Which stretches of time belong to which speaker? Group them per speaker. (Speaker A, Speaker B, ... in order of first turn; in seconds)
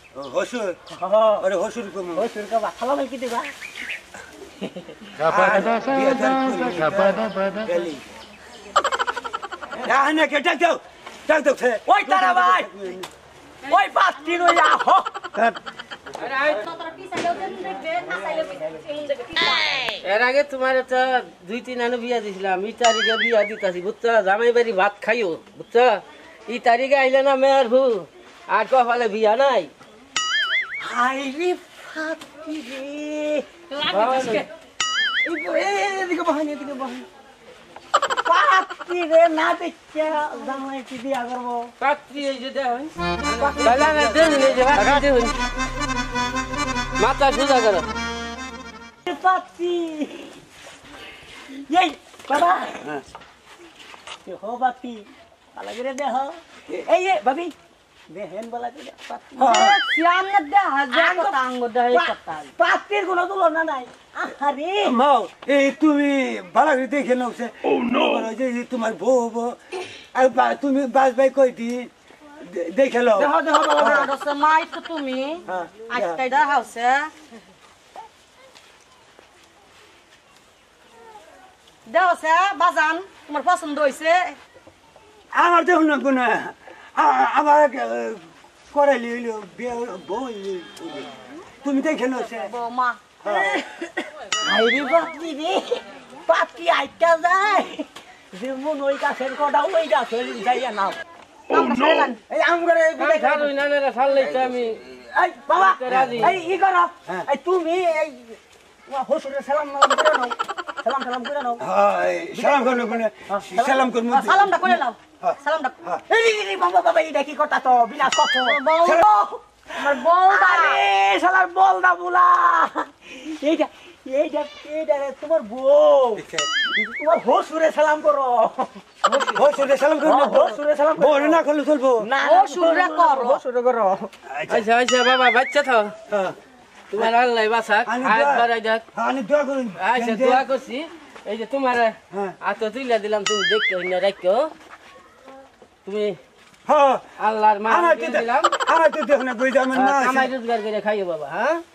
Speaker A: 0.1-0.8, 1.4-2.3, 5.2-8.1, 9.8-13.1, 15.3-15.6, 43.3-44.0, 59.4-59.8, 64.8-69.6, 70.2-74.1, 75.5-76.2, 85.3-91.1, 91.6-92.5, 93.2-93.6, 105.9-106.3, 111.6-116.0, 126.2-126.5, 129.3-132.1, 134.3-134.7, 136.1-136.4, 137.9-140.4, 146.7-147.1, 147.7-150.3
Speaker B: 1.0-1.4, 2.2-3.5, 11.9-12.7, 13.7-15.1, 30.8-33.5, 35.2-37.1, 38.2-41.7, 43.3-44.1, 49.1-50.4, 51.7-52.8, 54.2-57.5, 58.1-59.7, 60.9-61.4, 61.9-65.0, 73.2-74.1, 93.2-101.0, 102.3-103.5, 105.1-111.6, 112.3-113.9, 116.1-128.8, 130.0-131.4, 132.0-134.1
Speaker C: 16.2-16.6, 20.0-29.7, 33.9-34.5, 41.8-42.9, 43.6-45.4, 47.0-47.9, 103.0-104.8, 105.5-106.3, 134.5-135.9, 136.9-138.8, 139.8-144.5, 145.8-146.2, 147.2-148.5, 149.7-151.6
Speaker D: 16.4-19.9, 33.7-34.5, 59.4-62.5, 73.8-77.1, 81.9-84.4, 92.4-93.0, 101.5-102.2, 114.1-115.8, 118.4-119.0, 119.8-120.8, 129.1-129.4, 132.2-133.4